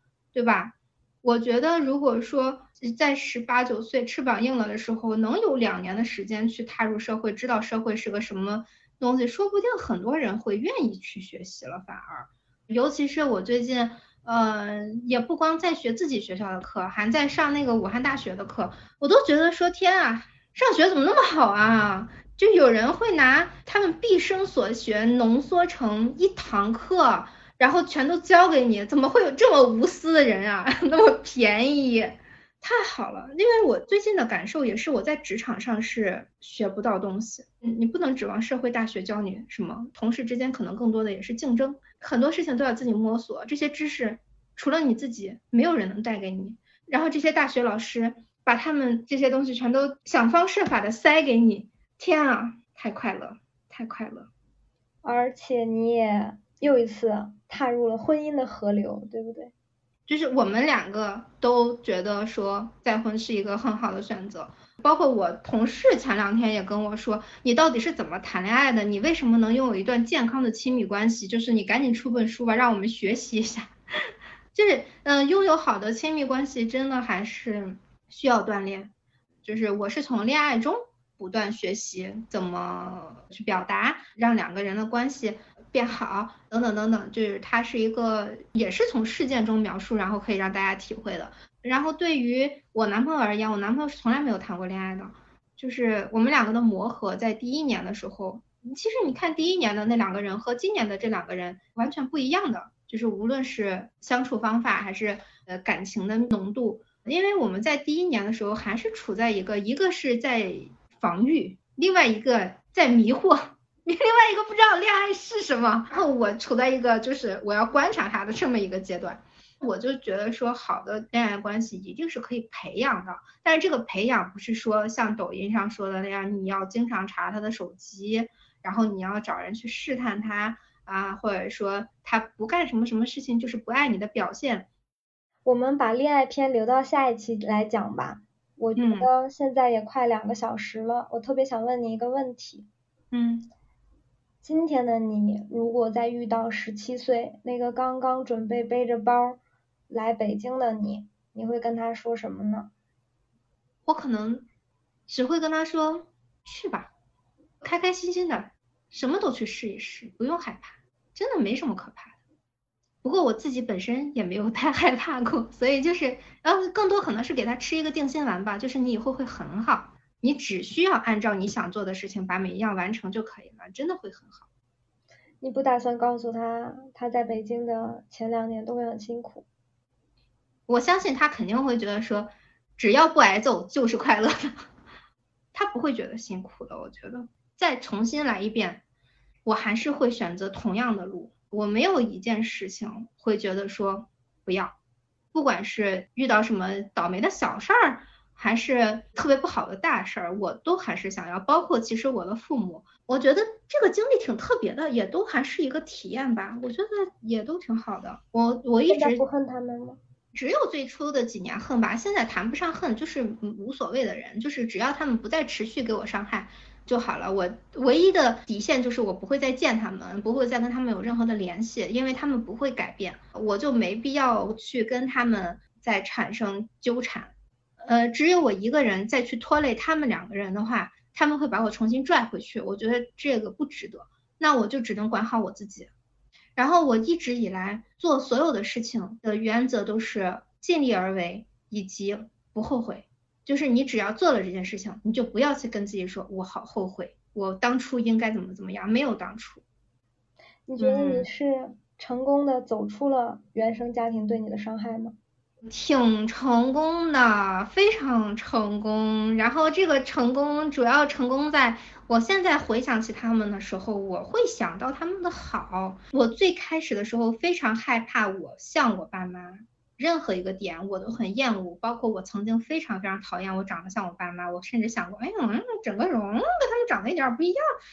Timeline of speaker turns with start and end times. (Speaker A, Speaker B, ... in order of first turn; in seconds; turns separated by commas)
Speaker A: 0.3-54.3, Speaker B: 55.0-59.5, Speaker A: 60.1-73.7, Speaker A: 74.5-78.9, Speaker A: 79.4-134.7, Speaker B: 135.4-142.7, Speaker A: 138.8-139.1, Speaker A: 143.1-143.5, Speaker B: 144.4-152.7, Speaker A: 153.9-154.4, Speaker A: 155.1-156.9, Speaker A: 157.6-162.2, Speaker A: 163.0-174.5, Speaker B: 175.4-179.5, Speaker A: 180.7-184.6, Speaker A: 185.5-188.8, Speaker A: 189.5-194.8, Speaker A: 195.3-209.2, Speaker B: 208.9-210.0, Speaker A: 210.3-235.9, Speaker A: 236.6-249.6, Speaker B: 250.7-255.2, Speaker A: 250.8-251.3, Speaker A: 255.7-277.6